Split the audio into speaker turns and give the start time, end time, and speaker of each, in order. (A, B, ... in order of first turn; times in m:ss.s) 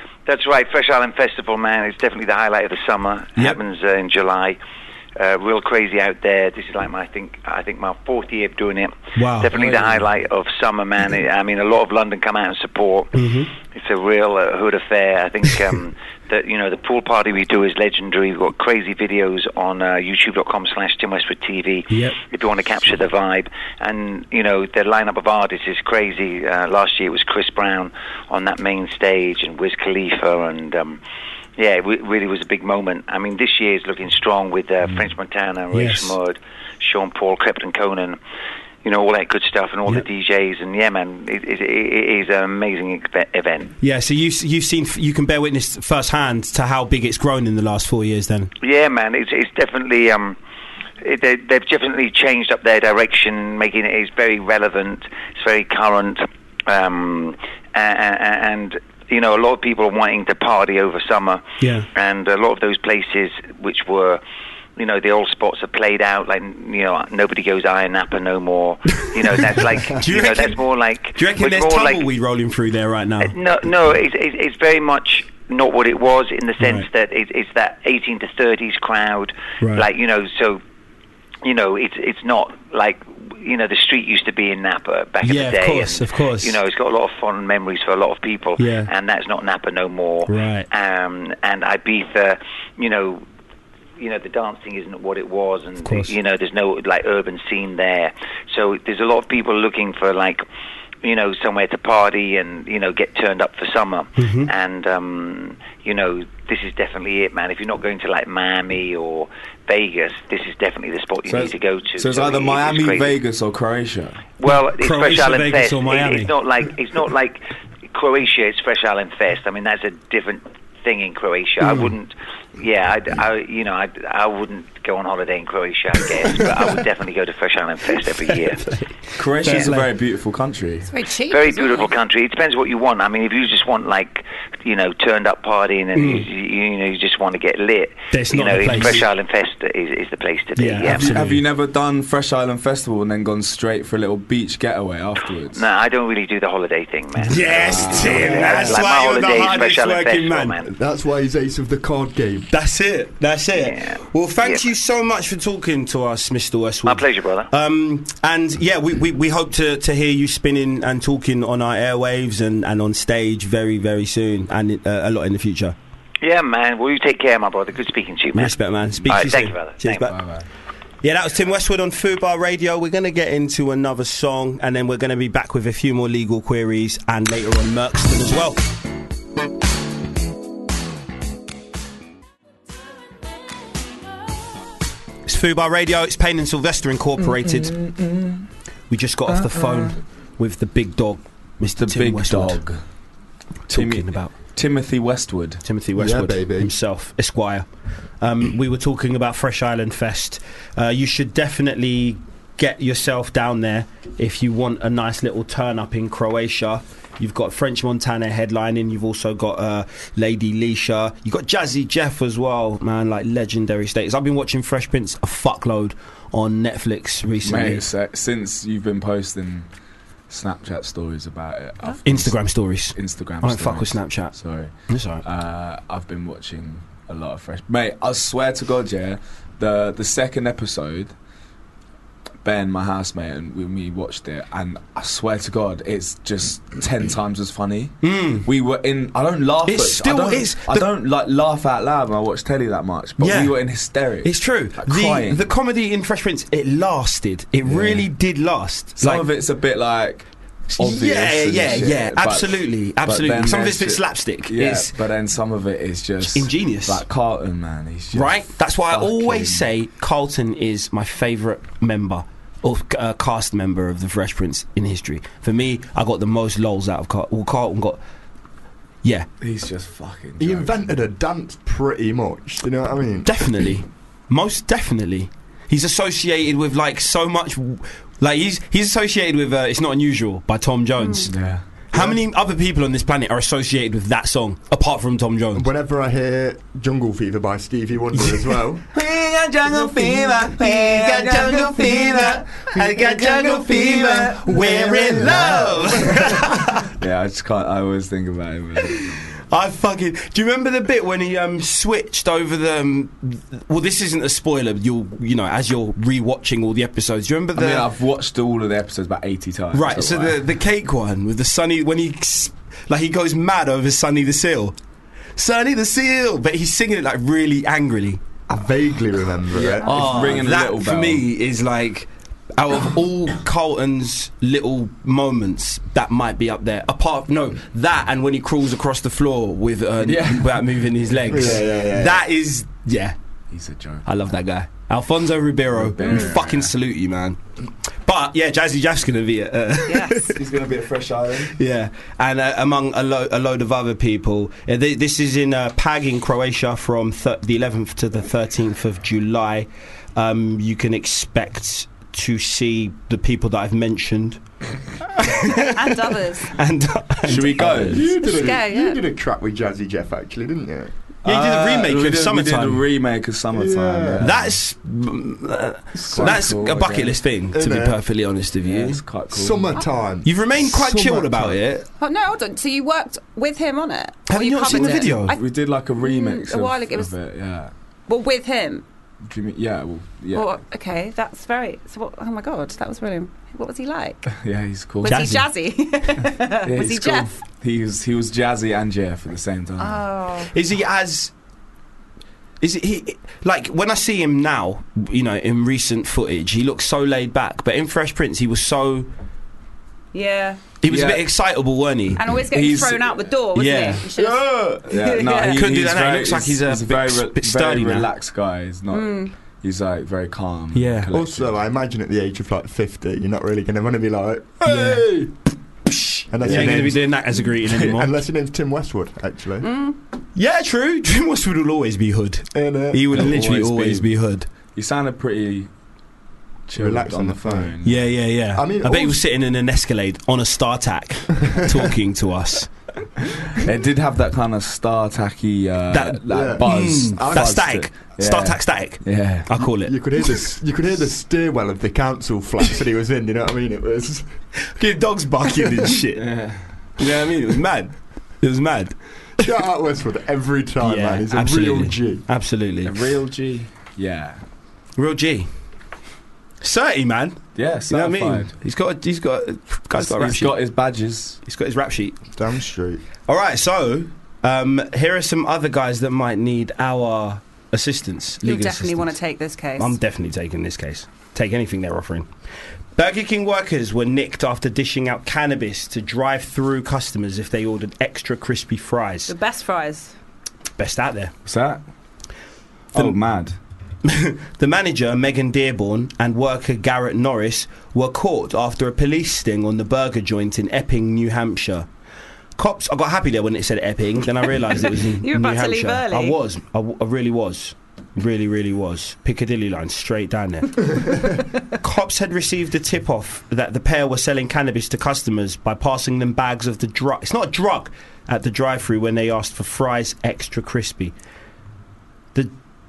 0:00.2-0:04.6 A
0:05.2-0:31.0 A
0:09.2-0:09.9 B
0:13.1-0:13.5 B
0:21.9-0:22.2 B
0:31.6-0:38.2 A
0:35.7-0:36.2 B
0:38.8-0:43.7 A
0:43.8-0:48.5 B
0:48.6-0:50.4 A
0:51.0-1:01.4 A
1:01.6-1:01.9 B
1:01.9-1:04.2 A
1:04.8-1:12.0 A
1:09.9-1:13.4 B
1:13.2-1:20.6 A
1:16.6-1:16.9 B
1:19.6-1:19.9 B
1:21.4-1:33.2 A
1:25.2-1:26.6 B
1:28.6-1:28.9 B
1:30.3-1:30.7 B
1:34.0-1:40.4 A
1:35.8-1:36.1 B
1:41.0-1:53.2 A
1:44.2-1:44.5 B
1:51.2-1:54.2 C
1:54.4-2:08.7 A
1:54.4-1:56.3 B
2:01.6-2:01.9 B
2:09.1-2:10.9 C
2:09.4-2:09.8 B
2:10.9-2:11.9 D
2:11.3-2:21.2 A
2:15.9-2:16.3 B
2:18.1-2:19.0 B
2:18.6-2:19.0 C
2:20.6-2:21.4 B
2:20.9-2:25.6 C
2:25.5-2:30.7 A
2:27.2-2:30.5 B
2:27.6-2:28.7 C
2:30.6-2:32.5 E
2:32.5-2:45.8 B
2:33.5-2:34.6 A
2:36.8-2:37.5 A
2:46.2-2:48.5 A
2:48.3-2:50.2 B
2:49.0-2:50.1 A
2:50.1-2:50.4 C
2:51.0-2:58.6 B
3:05.2-3:07.8 B
3:07.2-3:08.5 C
3:08.9-3:12.6 B
3:09.3-3:09.9 C
3:11.8-3:12.8 C
3:13.7-3:14.3 B
3:13.7-3:15.6 C
3:15.6-3:17.7 B
3:16.0-3:16.7 E
3:18.2-3:37.8 B
3:37.4-3:39.7 C
3:40.3-3:42.4 C
3:42.0-3:44.3 B
3:42.9-3:51.1 C
3:44.9-3:45.2 B
3:52.4-4:05.4 C
3:58.0-3:58.5 B
3:59.6-4:00.9 B
4:03.2-4:03.6 B
4:04.2-4:09.2 B
4:07.6-4:08.1 C
4:09.0-4:19.6 C
4:10.7-4:14.9 B
4:16.2-4:17.0 B
4:18.1-4:28.0 B
4:29.0-4:29.3 B
4:29.4-4:30.8 C
4:30.4-4:33.6 E
4:33.2-4:41.3 B
4:41.0-4:41.3 D
4:41.3-4:41.6 C
4:41.9-4:45.7 B
4:41.9-4:42.2 E
4:45.5-4:48.8 E
4:48.9-4:55.9 C
4:50.6-4:56.9 B
4:54.4-4:56.4 E
4:56.9-4:59.4 C
4:59.5-5:07.8 B
5:07.6-5:10.4 C
5:09.7-5:14.7 B
5:15.4-5:18.2 B
5:18.5-5:20.1 E
5:19.5-5:21.2 C
5:19.9-5:33.2 B
5:30.0-5:30.6 C
5:31.3-5:32.0 C
5:31.3-5:32.2 E
5:33.5-5:34.1 C
5:34.0-5:37.4 B
5:35.7-5:36.7 C
5:38.0-5:40.3 B
5:39.9-5:40.3 D
5:40.3-5:41.5 C
5:41.5-5:54.4 B
5:55.2-5:55.7 B
5:55.7-5:56.6 D
5:56.4-5:58.0 B
5:57.3-5:58.1 C
5:57.8-6:00.9 E
5:58.2-5:59.0 D
6:01.2-6:04.5 C
6:01.2-6:02.8 B
6:03.5-6:04.3 E
6:04.2-6:09.0 B
6:05.9-6:06.5 E
6:06.1-6:07.2 C
6:07.5-6:08.0 E
6:08.6-6:09.7 C
6:09.3-6:11.6 E
6:10.2-6:11.9 B
6:12.0-6:15.4 D
6:14.3-6:15.4 B
6:14.7-6:17.7 C
6:16.0-6:17.1 D
6:18.1-6:18.8 D
6:19.2-6:20.5 C
6:20.3-6:24.4 D
6:24.3-6:25.3 C
6:25.0-6:27.3 D
6:25.0-6:25.5 B
6:26.6-6:30.0 C
6:29.8-6:30.5 D
6:30.5-6:31.3 B
6:32.6-6:39.1 B
6:40.1-6:40.6 D
6:40.8-6:42.2 B
6:40.9-6:41.3 C
6:42.2-6:45.6 D
6:42.3-6:43.4 C
6:43.5-6:44.0 B
6:44.0-6:51.6 C
6:45.5-6:48.1 B
6:48.9-6:49.3 D
6:50.7-6:51.1 B
6:51.1-6:55.3 E
6:54.6-6:55.0 B
6:55.9-6:58.1 B
6:56.3-6:59.7 E
6:56.4-6:57.0 C
6:59.6-7:00.0 D
7:00.3-7:04.5 B
7:02.5-7:03.2 E
7:03.1-7:04.1 C
7:04.7-7:05.7 C
7:06.7-7:08.0 C
7:06.7-7:07.8 E
7:07.8-7:12.7 B
7:08.5-7:09.2 E
7:13.5-7:19.5 C
7:15.9-7:20.4 B
7:16.3-7:17.4 E
7:19.8-7:24.3 E
7:24.6-7:26.3 B
7:26.2-7:26.7 C
7:27.0-7:29.0 B
7:29.4-7:32.2 E
7:30.8-7:32.9 B
7:32.8-7:34.4 C
7:35.0-7:35.5 B
7:36.6-7:40.6 B
7:37.5-7:38.5 C
7:40.0-7:41.4 C
7:41.4-7:42.2 B
7:42.4-7:43.0 E
7:43.3-7:49.1 B
7:48.4-7:50.0 D
7:49.8-7:52.3 B
7:52.9-7:59.3 B
7:59.3-8:00.1 D
8:00.8-8:01.3 B
8:01.4-8:01.8 C
8:02.9-8:03.2 B
8:02.9-8:03.6 C
8:04.0-8:11.9 B
8:12.6-8:21.1 B
8:15.1-8:16.4 D
8:21.8-8:31.1 B